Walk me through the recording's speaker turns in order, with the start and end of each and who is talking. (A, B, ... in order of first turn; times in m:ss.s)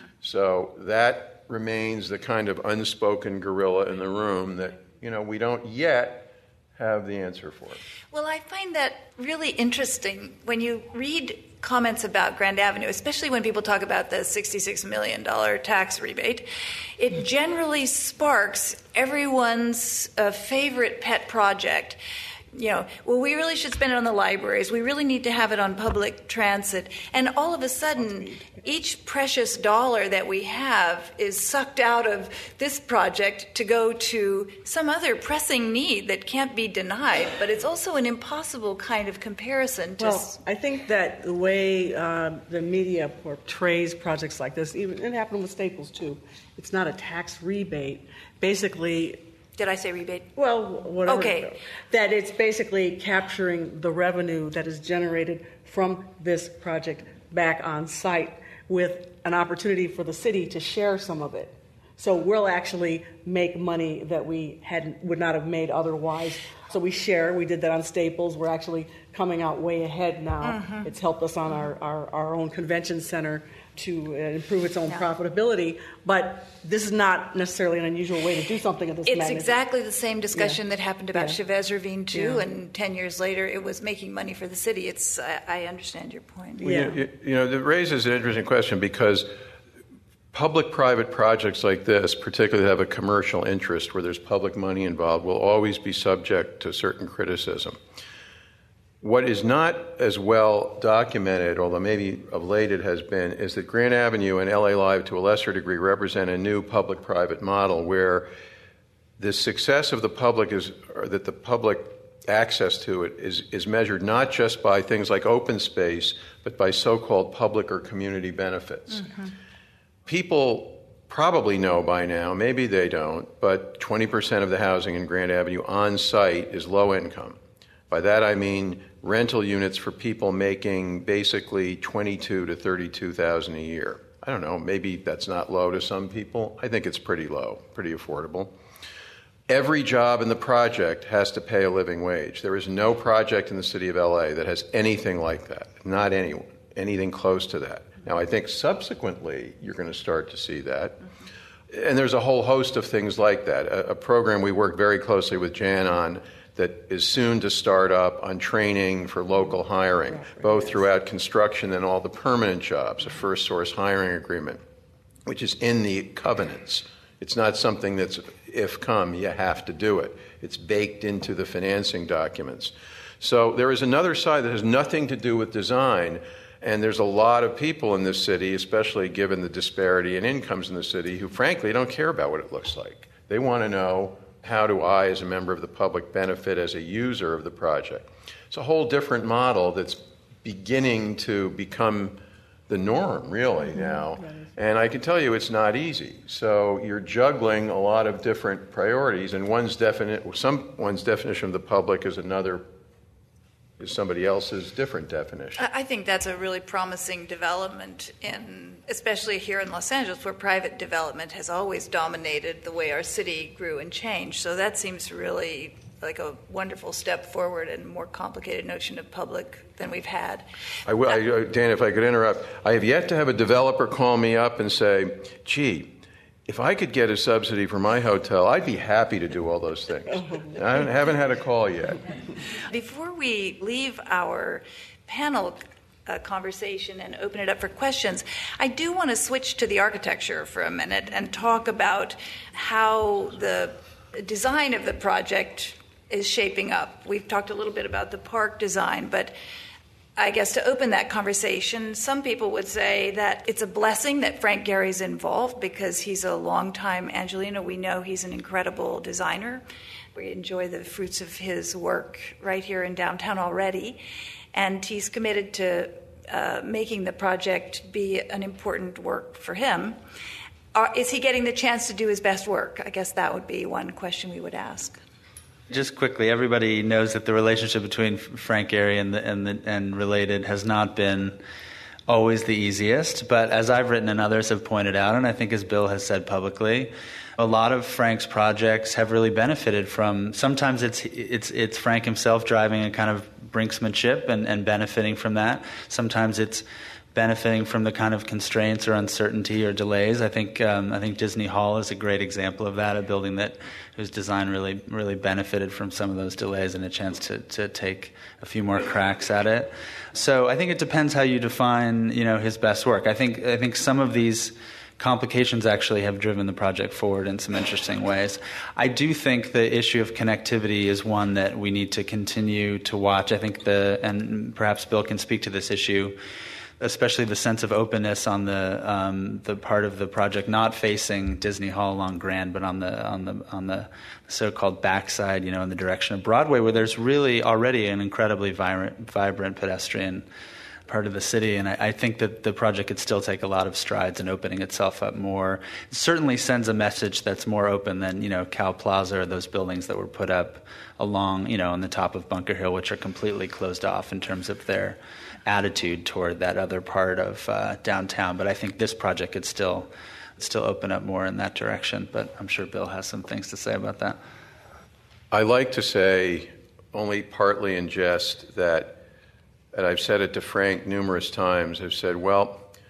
0:00.2-0:07.8 A
0:08.1-0:22.0 B
0:22.6-0:40.4 B
0:40.0-0:49.2 C
0:49.6-0:50.3 B
0:50.4-1:19.6 C
0:51.0-0:51.5 B
1:10.4-1:10.9 B
1:19.1-1:26.6 B
1:20.3-1:20.6 C
1:22.1-1:22.5 C
1:26.6-1:27.0 C
1:26.6-1:29.3 A
1:30.3-1:37.8 A
1:39.0-1:48.3 A
1:49.2-1:59.1 A
2:00.1-2:18.6 A
2:19.5-2:31.0 A
2:31.7-2:44.6 A
2:40.2-2:40.5 C
2:45.3-3:22.7 A
3:23.8-3:25.6 A
3:25.6-3:40.4 B
3:40.9-3:52.0 A
3:52.7-4:09.3 B
4:10.2-4:24.0 B
4:24.5-4:30.0 B
4:30.7-4:35.0 B
4:35.7-4:41.4 D
4:42.1-5:26.2 D
5:26.8-5:40.2 D
5:40.9-6:04.2 D
6:05.3-6:09.0 A
6:09.7-6:12.7 A